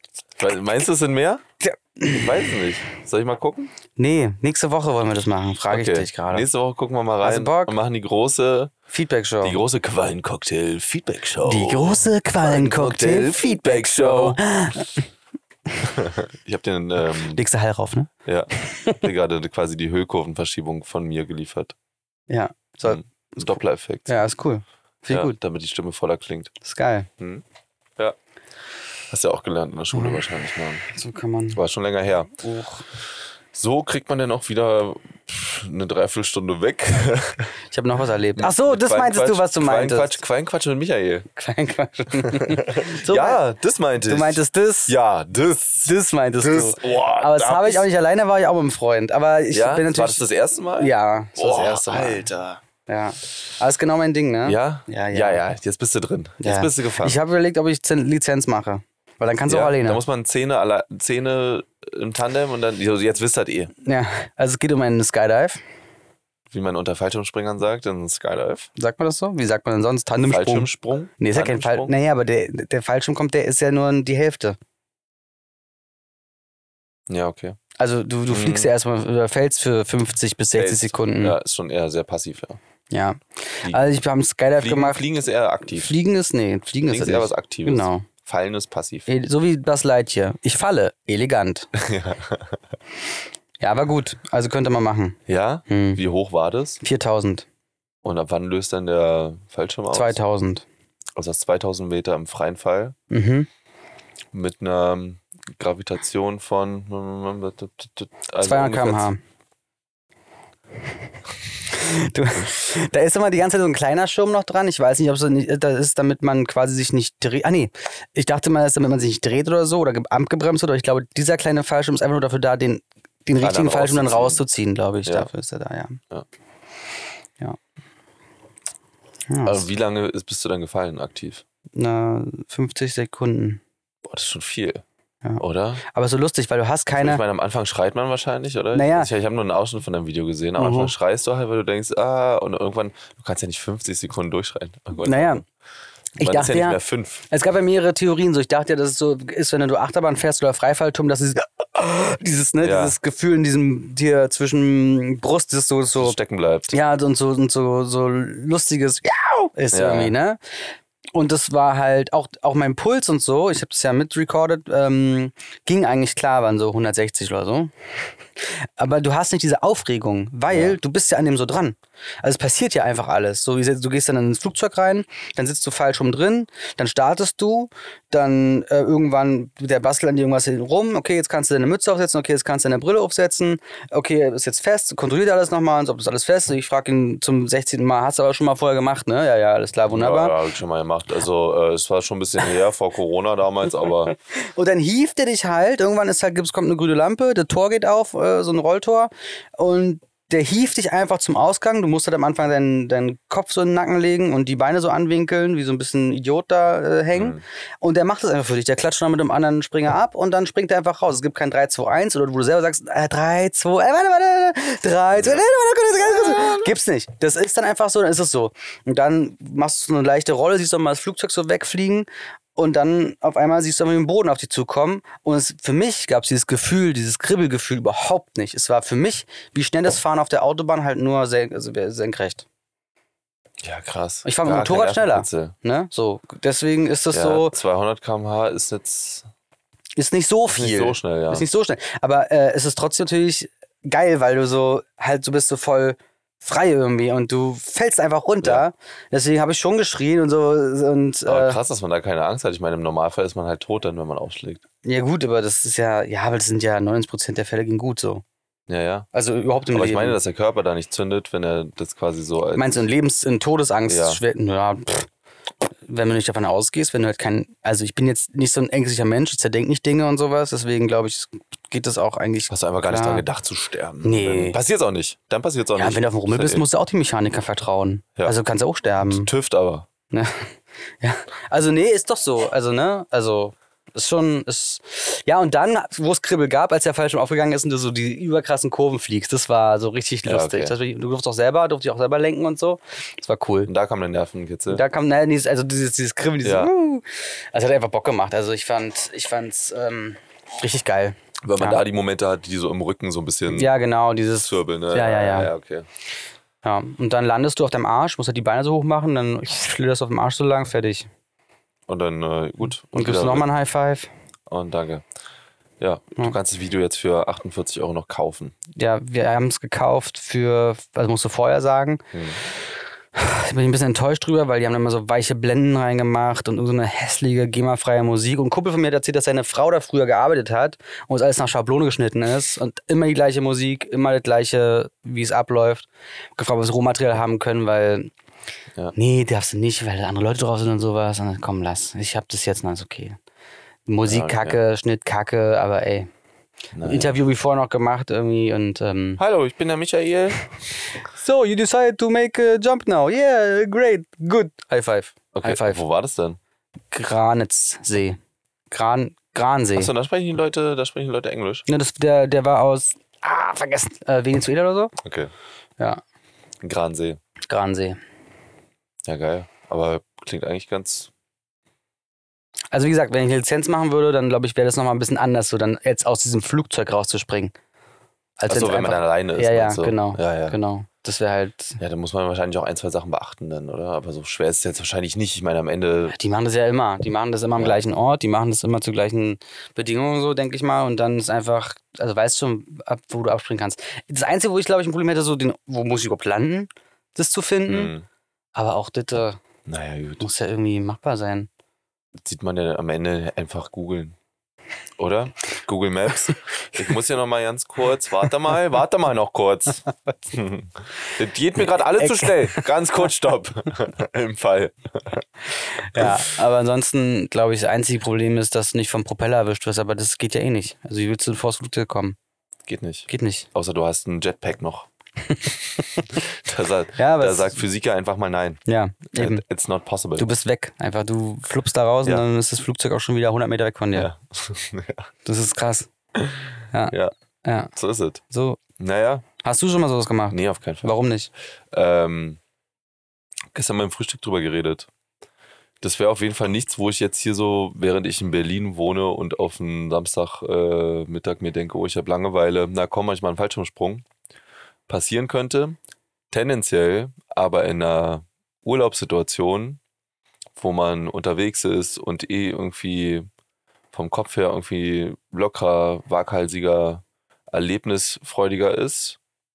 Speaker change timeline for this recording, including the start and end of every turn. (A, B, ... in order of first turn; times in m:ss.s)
0:00.4-0:01.4 A
0:01.6-0:02.6 B
0:02.0-0:03.7 A
0:04.0-0:06.5 B
0:05.7-0:08.7 A
0:07.2-0:07.8 B
0:08.9-0:09.6 B
0:09.4-0:14.4 A
0:11.4-0:15.0 B
0:15.8-0:17.4 A
0:17.3-0:18.1 B
0:18.3-0:21.8 A
0:18.6-0:19.0 B
0:22.3-0:23.6 B
0:22.9-0:24.2 A
0:24.1-0:25.4 B
0:25.1-0:26.5 A
0:26.6-0:27.1 B
0:29.1-0:30.8 A
0:29.9-0:30.2 B
0:30.9-0:31.6 B
0:31.6-0:32.4 A
0:32.4-0:32.8 B
0:33.5-0:37.5 A
0:37.7-0:40.2 B
0:38.4-0:41.3 A
0:41.4-0:43.4 B
0:42.2-0:47.9 A
0:44.1-0:45.0 B
0:45.9-0:50.2 B
0:49.5-0:52.6 A
0:50.8-0:52.3 B
0:52.9-0:55.4 B
0:54.4-0:57.2 A
0:56.4-1:00.0 B
0:59.5-1:03.7 A
1:03.8-1:05.6 B
1:06.5-1:08.7 A
1:08.8-1:14.6 B
1:10.3-1:11.9 A
1:17.1-1:17.6 A
1:17.8-1:21.4 B
1:18.3-1:18.7 A
1:20.6-1:22.6 A
1:22.9-1:25.0 B
1:24.6-1:25.9 A
1:25.7-1:28.1 B
1:26.9-1:29.1 A
1:29.1-1:31.7 B
1:31.8-1:32.6 A
1:33.6-1:36.0 B
1:35.3-1:36.8 A
1:36.8-1:37.5 B
1:38.0-1:40.2 A
1:39.9-1:40.6 B
1:41.2-1:43.0 A
1:43.1-1:43.5 B
1:44.3-1:49.1 A
1:48.4-1:49.2 B
1:51.7-2:06.0 B
2:03.4-2:04.4 A
2:09.3-2:09.7 B
2:09.4-2:11.4 A
2:11.8-2:13.6 B
2:14.0-2:14.8 A
2:15.2-2:17.2 B
2:15.4-2:15.8 A
2:16.9-2:25.4 A
2:18.7-2:19.1 B
2:20.6-2:20.9 B
2:25.0-2:25.4 B
2:26.2-2:26.8 B
2:26.2-2:27.2 A
2:27.3-2:36.2 B
2:32.6-2:33.0 A
2:36.0-2:36.8 A
2:36.7-2:40.4 B
2:39.7-2:40.2 A
2:41.1-2:47.7 B
2:48.4-3:10.4 B
2:50.5-2:50.8 A
3:09.9-3:14.1 A
3:14.3-3:52.5 B
3:27.1-3:27.4 A
3:35.1-3:35.5 A
3:36.1-3:36.6 A
3:53.6-3:55.6 A
3:54.2-3:57.6 B
3:57.1-3:59.3 A
4:00.0-4:11.6 B
4:00.5-4:01.5 A
4:11.3-4:14.6 A
4:14.8-4:18.2 B
4:18.7-4:19.1 A
4:19.1-4:20.2 B
4:19.7-4:22.8 A
4:22.6-4:25.1 B
4:23.9-4:24.2 A
4:25.9-4:33.3 B
4:32.5-4:36.6 A
4:34.0-4:34.6 B
4:35.8-4:39.3 B
4:39.1-4:39.9 A
4:40.1-4:53.7 B
4:50.3-4:50.8 A
4:53.7-4:54.8 A
4:54.7-5:01.8 B
4:56.4-4:56.7 A
5:01.4-5:03.7 A
5:03.5-5:05.5 B
5:04.4-5:05.9 A
5:06.6-5:11.1 B
5:11.9-5:13.5 A
5:12.9-5:14.1 B
5:14.5-5:15.0 A
5:15.8-5:18.6 A
5:18.8-5:22.0 B
5:22.1-5:22.4 A
5:23.2-5:38.1 B
5:39.0-5:43.2 B
5:43.9-5:46.1 B
5:44.0-5:44.6 A
5:46.7-5:47.2 A
5:46.8-5:49.2 B
5:49.2-5:50.4 A
5:51.0-5:55.8 B
5:55.3-5:56.4 A
5:56.9-5:58.2 B
5:58.7-5:59.9 B
5:59.7-6:01.7 A
6:01.7-6:04.9 B
6:05.0-6:05.3 A
6:06.6-6:07.2 A
6:07.4-6:08.0 B
6:09.1-6:11.1 A
6:12.7-6:17.5 B
6:18.4-6:21.8 B
6:18.5-6:20.6 A
6:21.8-6:26.2 A
6:26.1-6:37.9 B
6:27.6-6:27.8 A
6:37.7-6:38.0 A
6:38.6-6:39.4 B
6:39.7-6:40.3 A
6:40.2-6:41.5 B
6:42.2-6:44.2 A
6:45.0-6:55.3 A
6:52.0-6:52.7 B
6:55.6-7:02.2 B
6:56.0-6:56.3 A
7:02.7-7:04.9 A
7:03.1-7:03.5 B
7:05.2-7:06.2 B
7:06.1-7:08.6 A
7:07.0-7:07.6 B
7:08.7-7:09.4 B
7:09.1-7:10.3 A
7:10.2-7:14.1 B
7:13.9-7:15.1 A
7:15.2-7:15.9 B
7:16.2-7:17.1 A
7:16.7-7:17.7 B
7:17.8-7:18.2 A
7:18.3-7:18.6 B
7:18.8-7:19.2 A
7:19.4-7:21.3 B
7:20.3-7:20.9 A
7:21.7-7:22.4 A
7:23.5-7:24.9 A
7:25.8-7:34.1 A
7:34.9-7:35.8 A
7:36.3-7:39.8 A
7:40.6-7:43.3 A
7:43.9-7:49.2 A